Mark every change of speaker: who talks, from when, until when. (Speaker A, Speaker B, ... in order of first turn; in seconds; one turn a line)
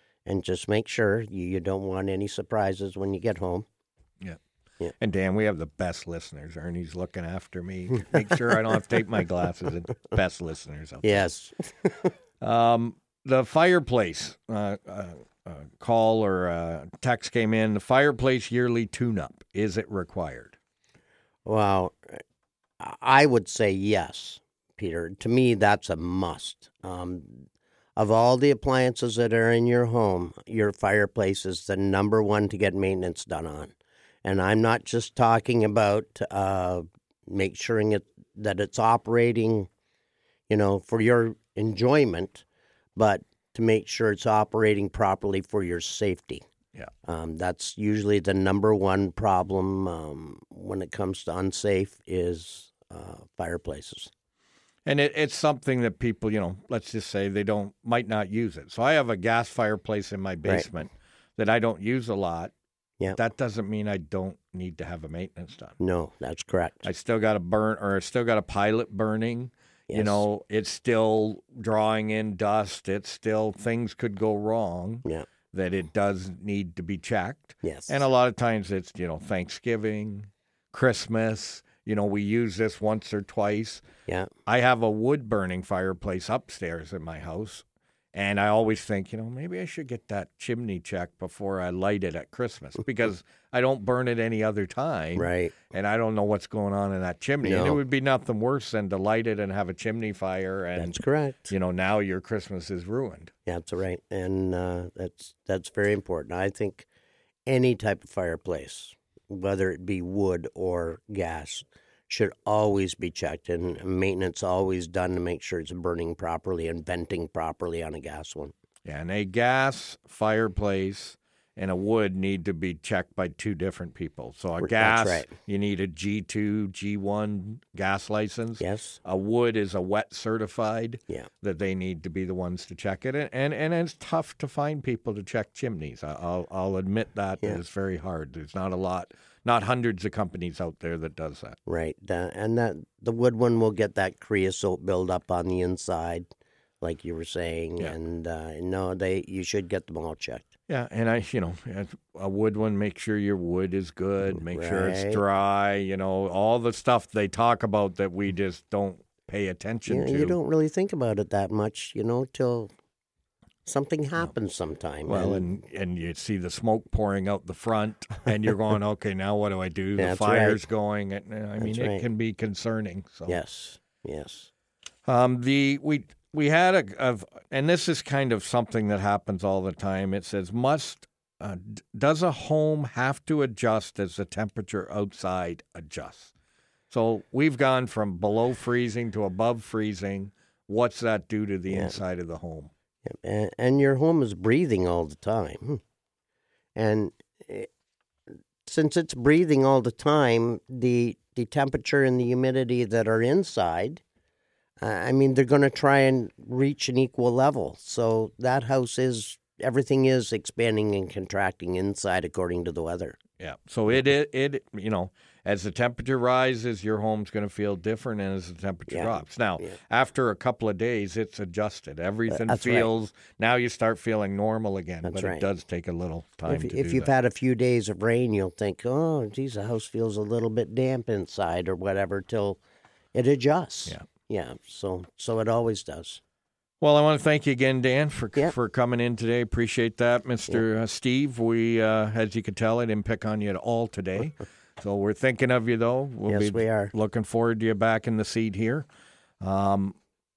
Speaker A: 0.3-3.7
Speaker B: 5.0-11.2
Speaker A: 11.0-12.1
Speaker B: 12.4-20.6
Speaker A: 21.5-22.2
Speaker A: 22.8-39.7
Speaker A: 40.5-42.5
Speaker A: 43.0-46.5
Speaker A: 47.0-54.1
Speaker B: 54.9-62.5
Speaker B: 63.1-65.8
Speaker A: 65.8-66.9
Speaker B: 66.8-83.8
Speaker A: 69.9-70.2
Speaker A: 77.6-78.0
Speaker B: 84.5-103.3
Speaker A: 95.2-95.5
Speaker A: 97.4-97.8
Speaker A: 100.8-101.5
Speaker A: 103.5-106.9
Speaker A: 107.5-118.5
Speaker B: 118.8-141.6
Speaker A: 124.6-125.3
Speaker A: 128.6-129.0
Speaker A: 141.7-146.3
Speaker A: 146.8-150.5
Speaker B: 150.7-160.4
Speaker A: 154.3-155.2
Speaker A: 159.9-162.7
Speaker A: 163.7-165.4
Speaker B: 165.1-173.4
Speaker A: 170.0-170.6
Speaker A: 171.6-172.0
Speaker A: 173.3-174.5
Speaker B: 175.1-186.3
Speaker B: 186.9-192.7
Speaker A: 191.7-192.0
Speaker A: 193.0-195.8
Speaker A: 196.8-197.7
Speaker A: 198.7-204.0
Speaker A: 204.8-213.2
Speaker B: 213.4-227.1
Speaker A: 218.9-219.8
Speaker A: 222.3-222.9
Speaker A: 225.1-225.4
Speaker A: 226.5-232.6
Speaker A: 233.1-236.2
Speaker B: 236.8-248.9
Speaker A: 246.3-246.9
Speaker B: 249.4-250.0